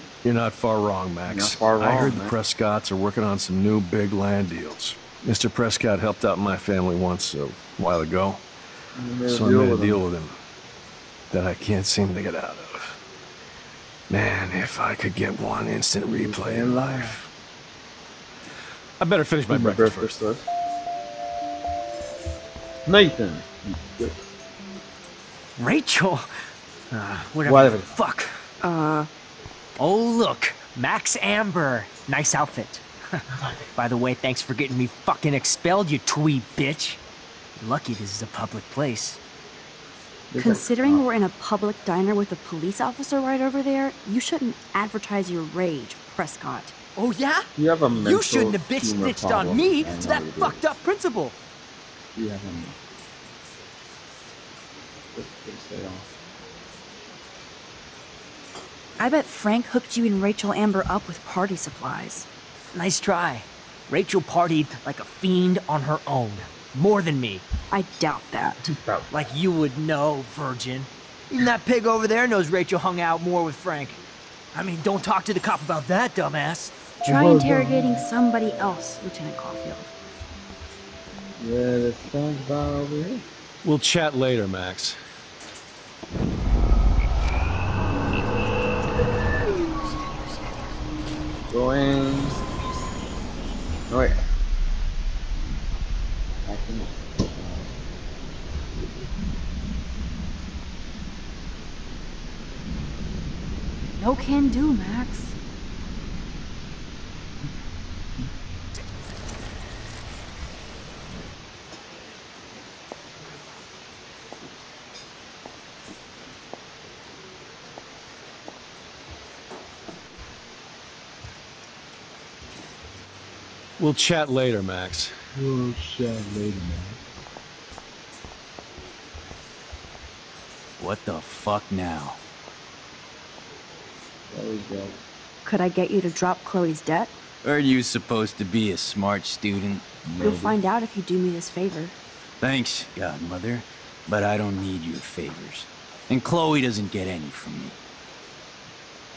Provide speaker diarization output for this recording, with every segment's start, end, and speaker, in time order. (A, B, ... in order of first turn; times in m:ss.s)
0:00.2-0:08.4 A
0:01.3-0:02.4 B
0:09.0-0:10.0 B
0:09.3-0:10.4 A
0:11.3-0:13.0 A
0:14.1-0:17.3 A
0:16.1-0:17.2 B
0:19.0-0:20.2 A
0:19.5-0:20.5 B
0:22.9-0:24.2 B
0:25.6-0:26.3 C
0:26.9-0:28.3 C
0:27.4-0:27.9 B
0:28.6-0:29.1 D
0:29.8-0:32.8 C
0:33.3-0:33.7 B
0:33.8-0:37.0 C
0:37.6-0:39.2 C
0:40.3-0:41.1 B
0:40.4-0:46.7 D
0:47.0-0:47.5 C
0:47.6-0:50.6 B
0:48.0-0:51.4 C
0:52.2-0:52.8 B
0:55.1-0:56.1 B
0:59.0-1:02.3 D
1:02.7-1:07.4 C
1:07.7-1:08.7 D
1:08.6-1:09.2 B
1:09.1-1:14.0 C
1:14.5-1:16.8 C
1:17.0-1:18.0 B
1:17.0-1:19.9 D
1:21.4-1:23.2 B
1:23.6-1:25.0 A
1:31.5-1:32.4 B
1:33.9-1:34.2 B
1:36.4-1:37.7 B
1:44.0-1:45.4 D
2:03.8-2:05.1 A
2:05.4-2:07.0 B
2:10.8-2:12.2 E
2:14.3-2:15.0 B
2:15.4-2:17.1 D
2:17.4-2:19.9 E
2:20.0-2:20.6 B
2:20.2-2:22.0 D
2:22.4-2:27.8 E